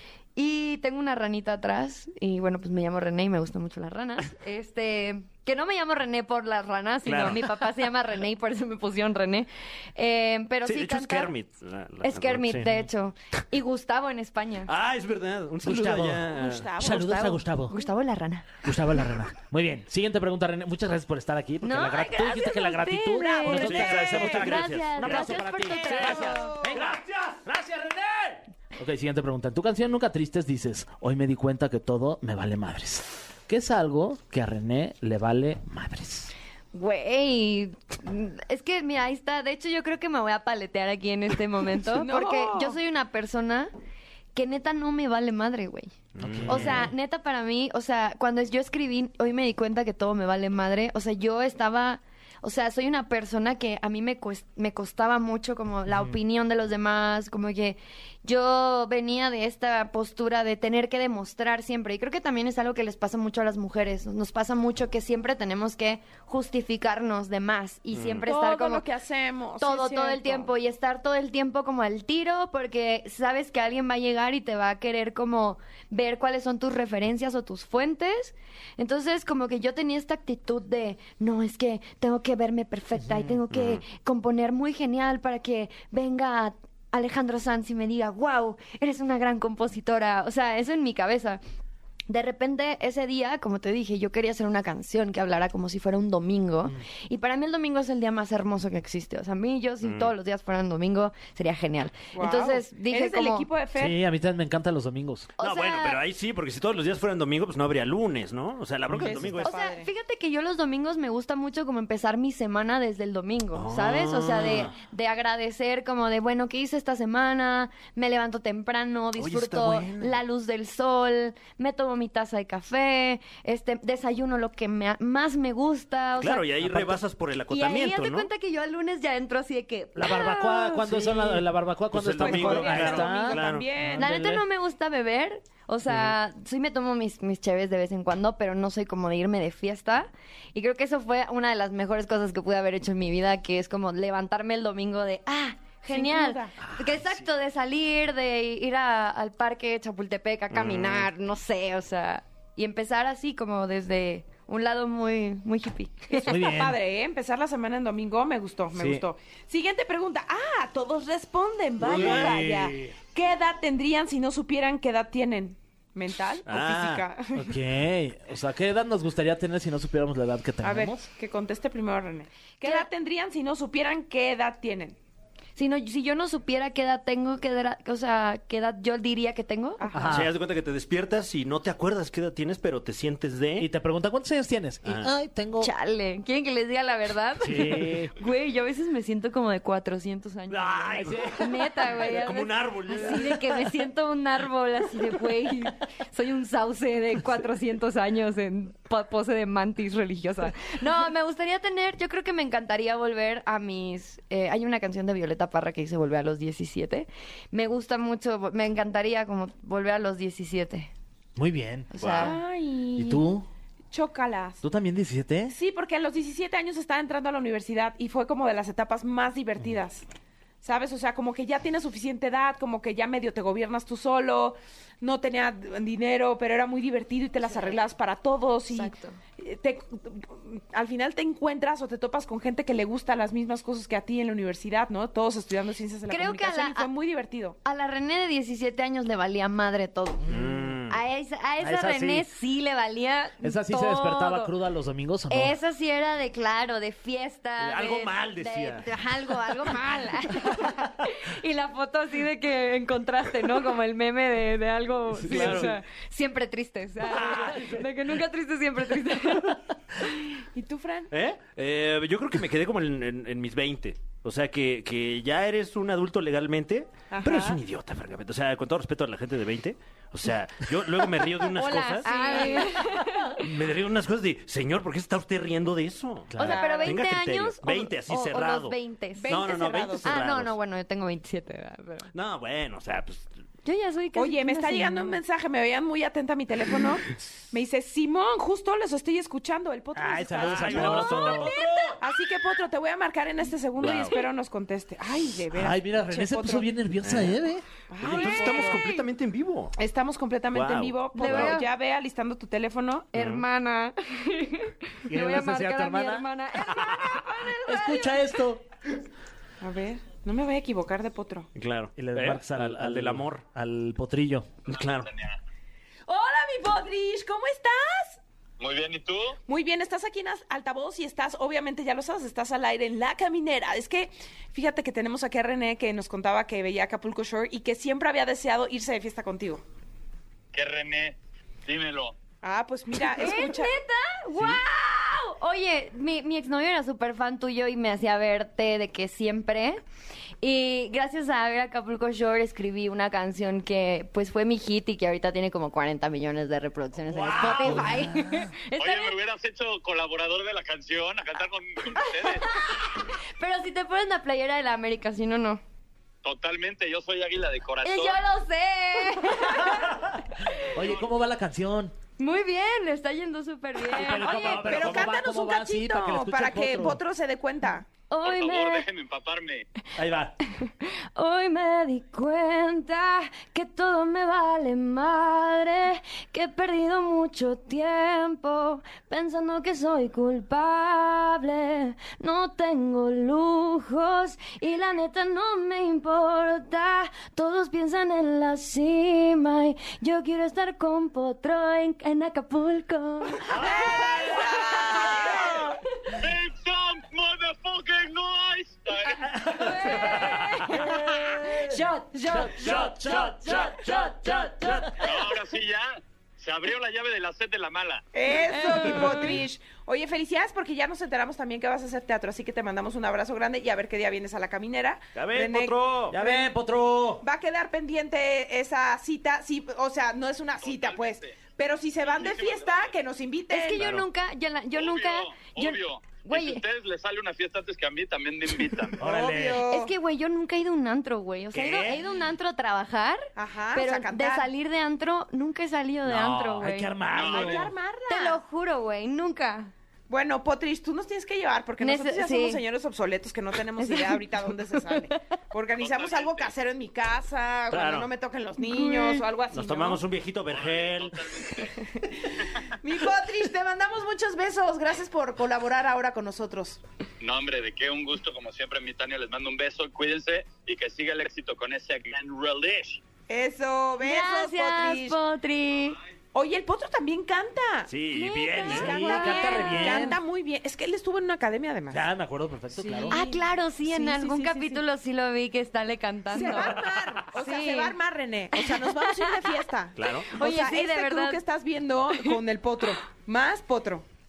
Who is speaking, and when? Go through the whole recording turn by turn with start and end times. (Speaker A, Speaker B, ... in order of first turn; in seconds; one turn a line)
Speaker A: 0.3-11.3
Speaker B: 7.0-7.5
Speaker B: 10.6-12.8
Speaker A: 12.0-14.7
Speaker B: 14.7-16.7
Speaker C: 15.6-17.8
Speaker D: 16.3-17.4
Speaker A: 16.8-18.6
Speaker C: 18.6-36.3
Speaker A: 21.6-26.5
Speaker D: 23.2-24.4
Speaker B: 23.5-25.3
Speaker D: 25.0-26.8
Speaker B: 26.7-27.4
Speaker A: 36.7-43.7
Speaker D: 41.9-42.8
Speaker A: 44.3-45.9
Speaker B: 46.1-46.9
Speaker C: 46.2-46.9
Speaker A: 46.5-68.8
Speaker C: 55.9-56.1
Speaker B: 67.9-68.3
Speaker D: 68.3-70.5
Speaker A: 69.6-91.4
Speaker B: 83.5-83.8
Speaker A: 92.1-103.5
Speaker B: 99.8-100.1
Speaker D: 102.1-104.0
Speaker C: 103.7-105.3
Speaker A: 105.4-106.0
Speaker B: 105.4-109.5
Speaker C: 108.9-109.4
Speaker D: 109.0-109.9
Speaker A: 109.4-126.8
Speaker B: 113.5-114.7
Speaker B: 119.2-120.2
Speaker B: 126.2-128.3
Speaker C: 126.6-127.0
Speaker A: 127.5-131.3
Speaker C: 129.9-134.4
Speaker B: 131.9-133.7
Speaker D: 132.2-134.1
Speaker A: 134.0-156.3
Speaker B: 135.9-136.1
Speaker D: 145.9-146.5
Speaker B: 150.5-151.1
Speaker D: 156.1-167.6
Speaker C: 156.2-156.8
Speaker C: 158.7-159.0
Speaker C: 161.8-162.9
Speaker B: 161.8-162.6
Speaker B: 166.4-167.0
Speaker C: 167.3-171.1
Speaker D: 170.6-175.0
Speaker A: 172.6-172.9
Speaker A: 175.6-179.8
Speaker D: 179.8-180.2
Speaker C: 179.9-180.3
Speaker B: 180.1-183.7
Speaker C: 183.6-185.7
Speaker B: 184.8-185.1
Speaker A: 185.6-210.9
Speaker C: 187.4-188.1
Speaker B: 190.5-193.7
Speaker C: 191.0-191.5
Speaker C: 211.3-211.9
Speaker A: 211.9-212.4
Speaker B: 212.0-212.3
Speaker D: 212.2-213.2
Speaker C: 212.9-213.4
Speaker D: 213.9-214.6
Speaker C: 214.6-215.6
Speaker D: 215.5-220.0
Speaker D: 220.6-237.6
Speaker A: 227.4-227.8
Speaker A: 228.7-229.2
Speaker A: 236.1-236.9
Speaker A: 237.6-240.3
Speaker C: 240.3-240.6
Speaker B: 240.3-241.0
Speaker A: 240.9-244.5
Speaker C: 241.6-242.3
Speaker C: 243.4-245.5
Speaker A: 245.3-260.1
Speaker B: 247.6-248.9
Speaker B: 255.2-255.8
Speaker C: 255.2-255.7
Speaker B: 257.0-257.9
Speaker D: 260.4-261.1
Speaker B: 261.1-272.5
Speaker D: 267.1-267.6
Speaker A: 271.4-273.4
Speaker D: 272.0-272.7
Speaker B: 273.3-280.5
Speaker C: 276.3-276.6
Speaker A: 276.4-279.5
Speaker D: 276.4-277.0
Speaker D: 279.1-280.1
Speaker A: 280.0-282.1
Speaker B: 282.1-283.3
Speaker A: 283.6-285.2
Speaker D: 284.1-291.4
Speaker C: 289.9-291.5
Speaker B: 290.4-292.0
Speaker A: 291.5-291.9
Speaker D: 292.0-296.7
Speaker B: 293.8-294.1
Speaker C: 295.5-297.6
Speaker B: 297.0-297.4
Speaker D: 297.9-298.8
Speaker B: 298.0-299.7
Speaker A: 298.1-299.0
Speaker D: 299.8-303.1
Speaker B: 300.5-301.6
Speaker A: 301.1-301.7
Speaker A: 303.1-308.3
Speaker B: 303.1-303.4
Speaker C: 305.1-306.3
Speaker C: 307.0-308.6
Speaker D: 309.6-311.5
Speaker B: 311.5-313.4
Speaker C: 312.0-314.5
Speaker B: 314.6-315.1
Speaker E: 314.7-315.4
Speaker D: 316.1-318.2
Speaker E: 318.6-319.4
Speaker D: 319.4-329.6
Speaker E: 330.5-332.1
Speaker D: 332.4-333.7
Speaker A: 333.0-339.8
Speaker A: 340.4-349.1
Speaker C: 347.1-348.4
Speaker B: 347.5-347.8
Speaker E: 348.8-352.5
Speaker A: 351.9-355.6
Speaker E: 356.2-358.2
Speaker A: 357.8-360.7
Speaker C: 360.6-361.9
Speaker E: 360.8-361.0
Speaker A: 362.2-365.1
Speaker C: 363.9-367.0
Speaker D: 364.1-367.9
Speaker A: 368.1-368.9
Speaker E: 368.2-369.6
Speaker C: 370.0-370.3
Speaker A: 370.6-395.6
Speaker D: 393.5-395.6
Speaker E: 396.1-399.3
Speaker C: 399.2-405.0
Speaker A: 399.5-404.9
Speaker B: 402.6-402.9
Speaker E: 405.0-408.0
Speaker D: 408.1-416.5
Speaker A: 408.5-409.4
Speaker B: 415.1-416.2
Speaker C: 416.1-417.2
Speaker D: 417.2-423.8
Speaker E: 420.6-421.4
Speaker E: 422.0-422.9
Speaker A: 423.5-426.6
Speaker B: 423.8-424.1
Speaker E: 424.7-429.0
Speaker C: 429.0-429.6
Speaker D: 429.0-429.9
Speaker A: 429.6-437.0
Speaker B: 431.5-432.0
Speaker C: 431.7-432.0
Speaker D: 433.4-434.5
Speaker C: 436.0-437.7
Speaker E: 437.1-437.7
Speaker D: 437.2-438.4
Speaker A: 438.1-439.7
Speaker D: 440.1-450.0
Speaker A: 441.8-442.6
Speaker A: 443.8-444.2
Speaker A: 444.9-445.2
Speaker E: 445.8-446.5
Speaker B: 447.7-448.1
Speaker A: 448.6-449.2
Speaker B: 449.5-451.3
Speaker E: 450.5-451.7
Speaker D: 451.8-456.8
Speaker E: 457.2-463.0
Speaker D: 463.3-465.2
Speaker A: 464.0-466.0
Speaker D: 466.3-467.9
Speaker B: 467.9-469.0
Speaker A: 468.1-470.2
Speaker D: 468.5-472.1
Speaker C: 468.7-470.2
Speaker C: 471.9-473.2
Speaker D: 472.7-474.8
Speaker A: 473.1-478.0
Speaker D: 476.3-484.0
Speaker A: 478.5-479.5
Speaker B: 480.0-480.3
Speaker A: 480.3-481.4